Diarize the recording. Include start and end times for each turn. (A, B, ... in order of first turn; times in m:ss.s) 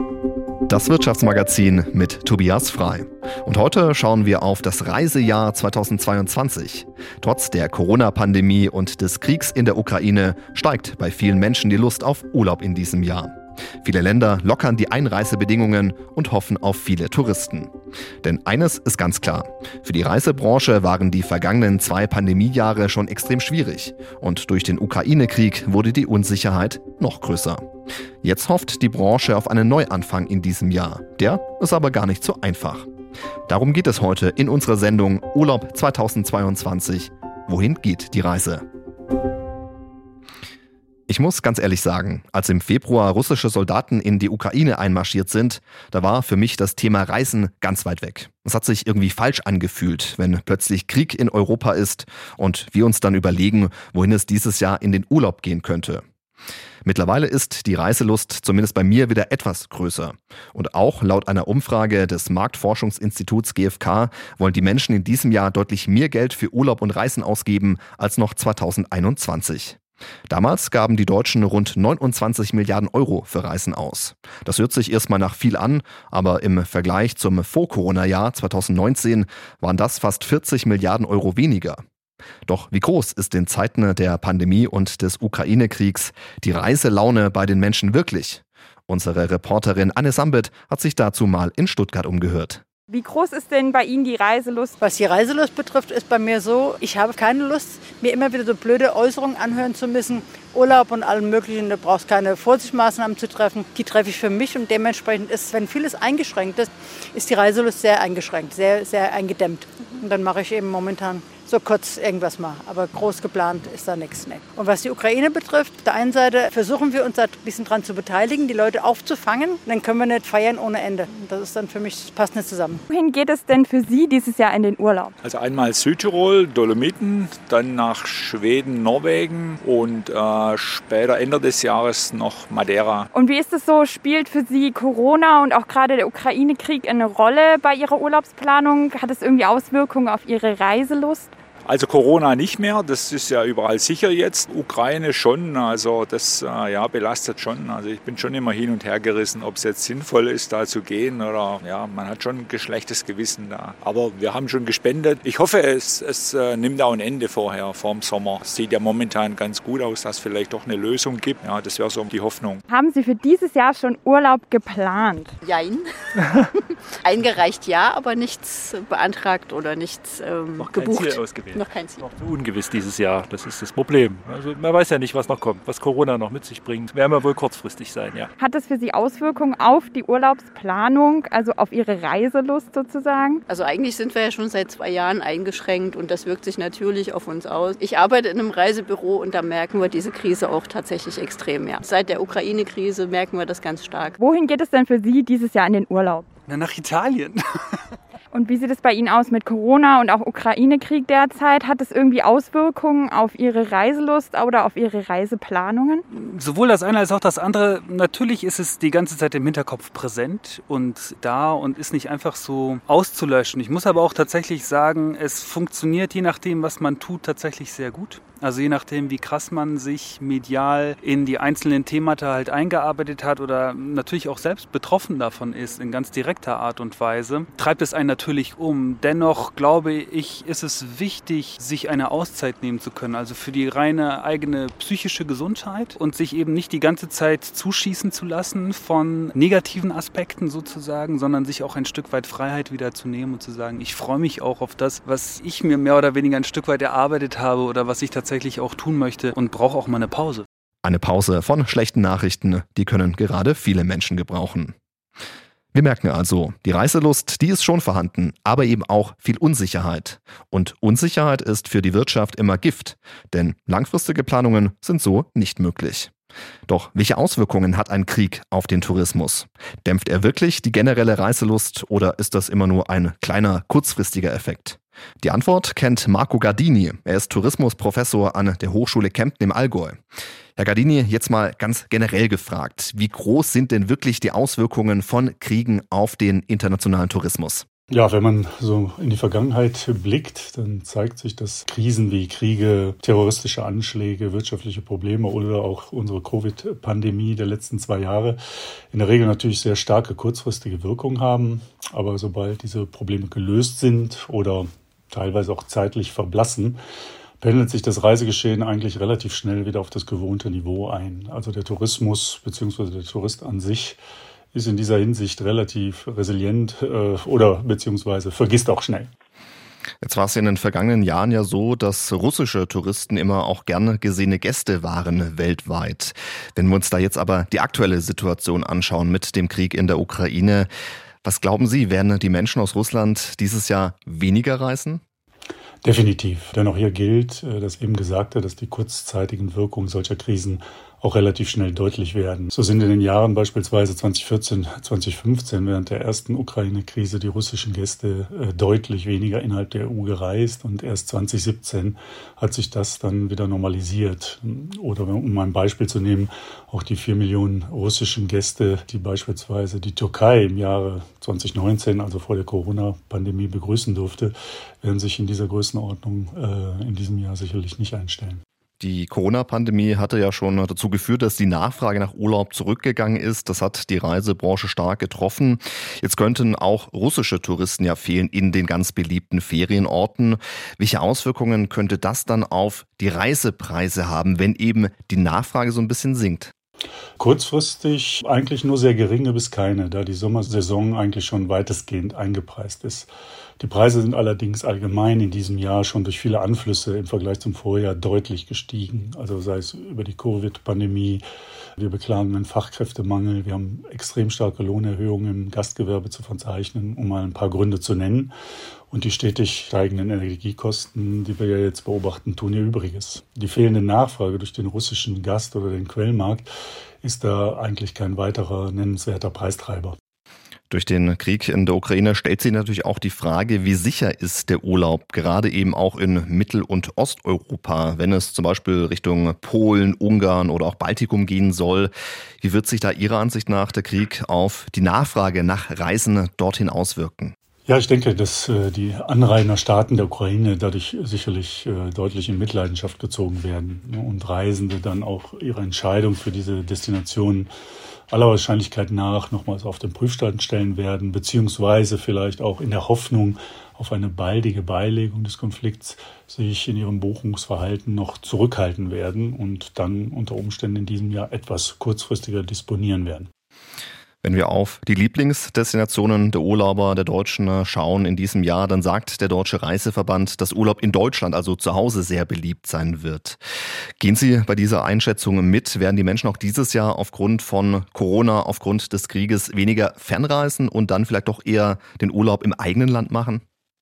0:00.7-0:17.7 A
0:18.2-0:27.6 A
0:28.2-0:32.9 A
0:33.5-0:38.6 A
0:41.1-0:56.0 A
0:56.8-1:21.8 A
1:22.5-1:32.6 A
1:32.9-1:34.8 B
1:34.8-2:02.8 C
2:02.9-2:05.1 B
2:05.2-2:13.1 D
2:13.1-2:21.3 B
2:21.6-2:42.6 D
2:42.7-2:45.3 B
2:45.4-2:45.9 E
2:47.0-2:52.0 E
2:50.6-2:58.3 F
2:58.4-3:03.4 B
3:03.5-3:14.2 E
3:14.2-3:16.3 B
3:16.5-3:17.8 G
3:18.3-3:26.0 B
3:26.1-4:10.4 G
4:10.8-4:14.8 A
4:15.7-4:26.1 A
4:26.7-4:40.0 A
4:40.6-4:47.7 A
4:47.9-4:58.4 H
4:58.9-5:06.8 H
5:07.4-5:14.0 H
5:14.5-5:19.1 H
5:20.0-5:30.7 A
5:31.2-5:35.0 A
5:35.8-6:08.4 H
6:08.8-6:26.5 A
6:27.2-6:41.2 H
6:41.8-6:48.3 H
6:48.9-6:56.5 H
6:57.0-7:00.0 H
7:00.7-7:17.4 A
7:17.7-7:27.5 H
7:28.1-7:43.3 H
7:44.2-7:53.4 A
7:54.0-8:03.4 A